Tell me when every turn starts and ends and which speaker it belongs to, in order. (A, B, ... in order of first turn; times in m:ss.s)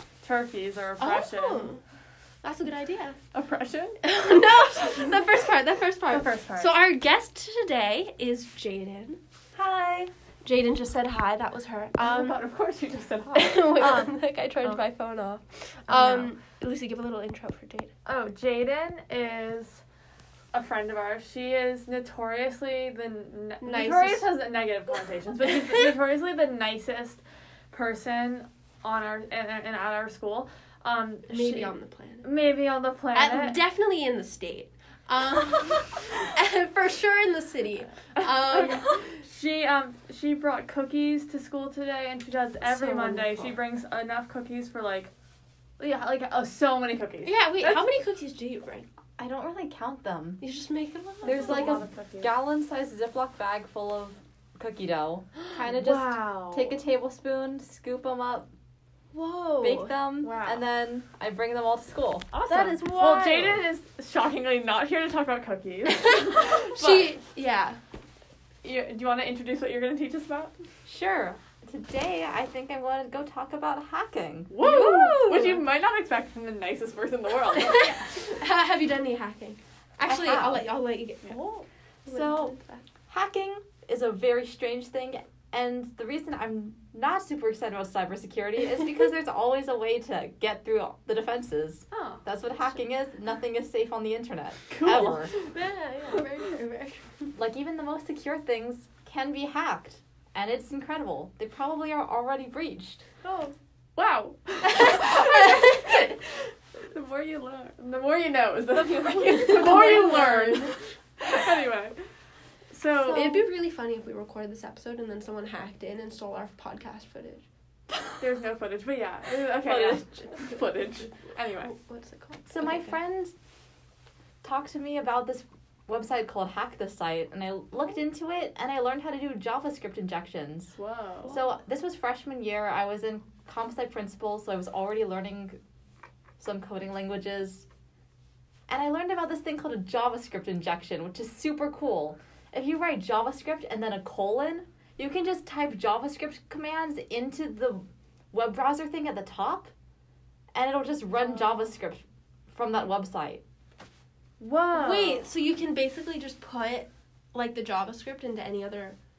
0:00.2-0:01.7 A
0:01.0-0:01.8 B
0:02.4-0:03.2 B
0:03.3-0:04.0 A
0:04.0-0:09.2 B
0:06.1-0:06.7 A
0:09.6-0:10.1 C
0:10.4-0:12.4 B
0:12.0-0:14.8 A
0:13.3-0:17.9 B
0:15.9-0:16.3 A
0:18.1-0:19.8 A
0:20.5-0:33.6 A
0:23.6-0:24.3 B
0:31.3-0:32.3 B
0:33.1-0:39.1 B
0:38.0-0:45.1 A
0:42.6-0:43.6 B
0:45.8-0:47.9 A
0:47.2-0:48.9 B
0:49.2-0:50.4 C
0:50.4-0:51.8 B
0:51.2-0:52.3 A
0:51.2-0:58.5 C
0:55.5-0:56.8 A
0:59.1-0:59.9 B
0:59.6-1:03.6 C
1:00.2-1:00.6 A
1:02.4-1:07.1 A
1:06.0-1:07.8 B
1:08.6-1:10.5 A
1:10.9-1:14.5 C
1:14.5-1:18.3 A
1:14.6-1:15.6 B
1:17.6-1:22.8 B
1:20.0-1:20.6 C
1:22.1-1:22.6 C
1:23.1-1:35.3 C
1:31.9-1:32.2 A
1:34.7-1:35.2 A
1:35.4-1:37.1 B
1:37.4-1:43.0 C
1:43.2-1:43.5 B
1:44.0-1:46.2 A
1:44.6-1:46.2 B
1:46.9-1:52.0 A
1:49.0-1:50.8 B
1:52.7-1:53.5 A
1:53.0-1:57.4 B
1:58.2-2:01.7 A
1:59.6-2:00.0 C
2:01.6-2:02.9 B
2:02.5-2:03.4 C
2:04.4-2:10.7 C
2:10.8-2:11.4 A
2:11.3-2:15.6 C
2:16.4-2:17.7 C
2:18.7-2:29.7 C
2:30.5-2:33.4 C
2:34.4-2:35.2 A
2:34.7-2:39.0 B